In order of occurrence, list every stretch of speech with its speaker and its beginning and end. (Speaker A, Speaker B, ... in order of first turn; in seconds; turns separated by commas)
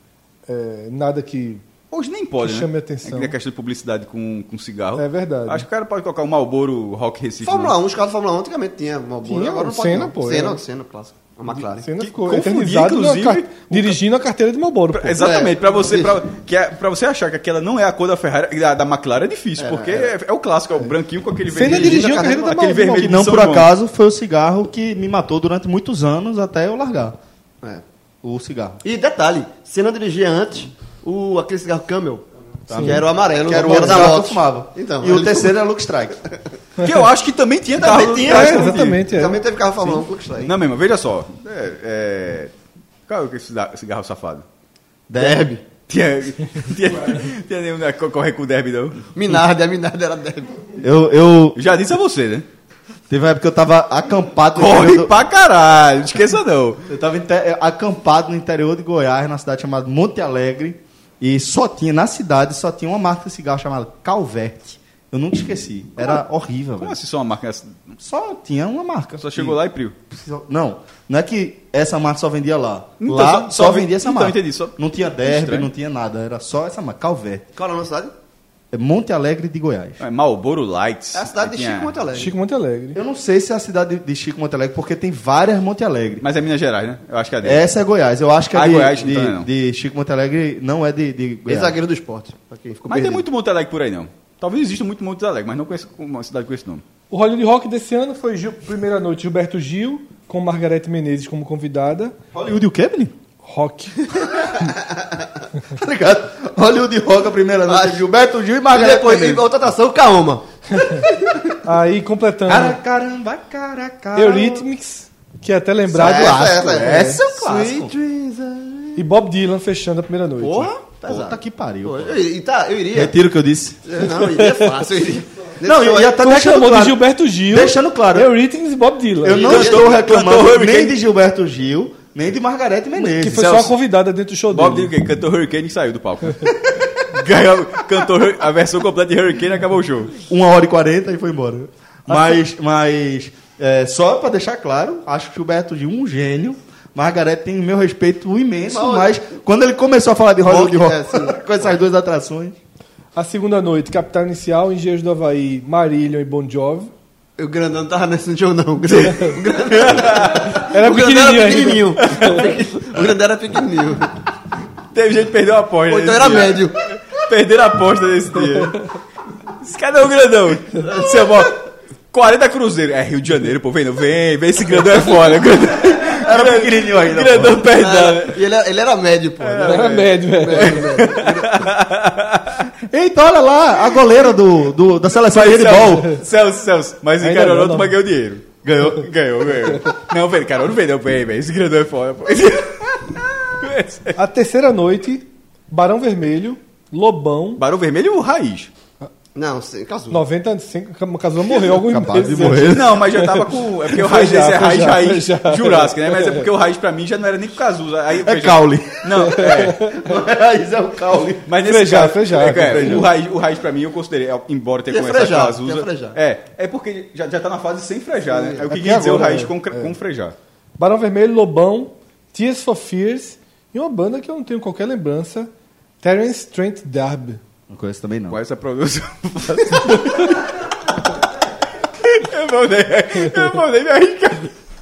Speaker A: 0.5-1.6, Speaker B: 1.9-7.7, Speaker A: 2.4-3.3, Speaker A: 5.0-5.6, Speaker C: 7.4-11.9, Speaker A: 9.2-10.6, Speaker A: 11.5-15.2, Speaker B: 12.0-14.0, Speaker B: 14.9-23.7, Speaker C: 15.2-16.2, Speaker C: 19.6-20.1, Speaker A: 21.5-23.1, Speaker C: 21.6-22.6, Speaker D: 22.9-27.2, Speaker D: 28.2-28.8, Speaker C: 28.8-32.2, Speaker D: 32.7-36.2, Speaker A: 32.7-33.0, Speaker C: 32.8-35.5, Speaker A: 33.6-34.0, Speaker B: 36.8-39.0, Speaker C: 37.8-40.5, Speaker A: 38.2-39.4, Speaker B: 39.8-42.5, Speaker B: 43.1-44.4, Speaker D: 45.1-45.5, Speaker C: 45.1-45.6, Speaker B: 45.9-49.0, Speaker C: 49.1-50.6, Speaker D: 50.8-51.6, Speaker B: 51.5-52.5, Speaker D: 53.1-55.1, Speaker B: 54.5-56.9, Speaker D: 56.9-67.0, Speaker B: 66.8-68.0, Speaker D: 68.0-69.6, Speaker B: 69.2-70.0, Speaker D: 70.1-77.5, Speaker B: 73.0-75.7, Speaker C: 77.5-78.1, Speaker D: 78.7-80.0, Speaker B: 80.0-81.9, Speaker C: 81.1-82.3, Speaker A: 82.1-83.0, Speaker D: 82.9-86.2, Speaker B: 86.2-87.6, Speaker D: 87.4-91.8, Speaker B: 88.5-89.5, Speaker C: 91.5-93.2, Speaker B: 92.9-96.8, Speaker A: 97.1-102.1, Speaker D: 102.3-103.1, Speaker A: 103.4-104.0, Speaker D: 105.7-109.5, Speaker C: 107.7-108.0, Speaker C: 108.7-110.4, Speaker A: 111.6-112.8, Speaker D: 112.5-114.7, Speaker A: 114.1-117.2, Speaker C: 115.9-119.0, Speaker D: 115.9-117.9, Speaker A: 119.0-120.7, Speaker C: 120.4-123.1, Speaker D: 120.8-122.2, Speaker D: 122.9-123.8, Speaker C: 123.8-126.2, Speaker D: 125.6-128.3, Speaker A: 126.2-129.5, Speaker D: 129.2-133.5, Speaker C: 129.4-130.0, Speaker B: 129.4-131.0, Speaker A: 133.0-134.9, Speaker B: 133.3-133.7, Speaker B: 134.5-136.6, Speaker B: 137.1-140.2, Speaker D: 140.3-152.6, Speaker C: 148.7-149.1, Speaker C: 150.4-151.5, Speaker A: 153.2-156.9, Speaker C: 157.4-164.1, Speaker B: 158.9-160.5, Speaker A: 160.7-162.2, Speaker B: 162.0-162.5, Speaker B: 164.9-168.8, Speaker C: 165.9-166.8, Speaker B: 169.6-178.4, Speaker C: 170.8-171.5, Speaker D: 176.0-177.6, Speaker C: 177.7-181.6, Speaker B: 179.4-182.7, Speaker A: 179.7-180.9, Speaker D: 182.9-186.2, Speaker B: 185.3-194.2, Speaker A: 187.2-187.9, Speaker D: 188.6-189.1, Speaker A: 194.2-197.6, Speaker B: 197.6-198.7, Speaker C: 199.3-200.2, Speaker A: 200.1-206.4, Speaker D: 201.6-203.0, Speaker B: 202.5-210.0, Speaker D: 208.2-211.5, Speaker A: 209.7-209.9, Speaker B: 211.5-220.3, Speaker A: 211.6-213.0, Speaker D: 212.3-213.1, Speaker C: 214.9-216.2, Speaker C: 218.3-218.6, Speaker A: 218.6-219.9, Speaker A: 220.8-225.5, Speaker A: 226.0-227.4, Speaker D: 227.7-228.4, Speaker B: 228.3-230.5, Speaker B: 232.0-234.5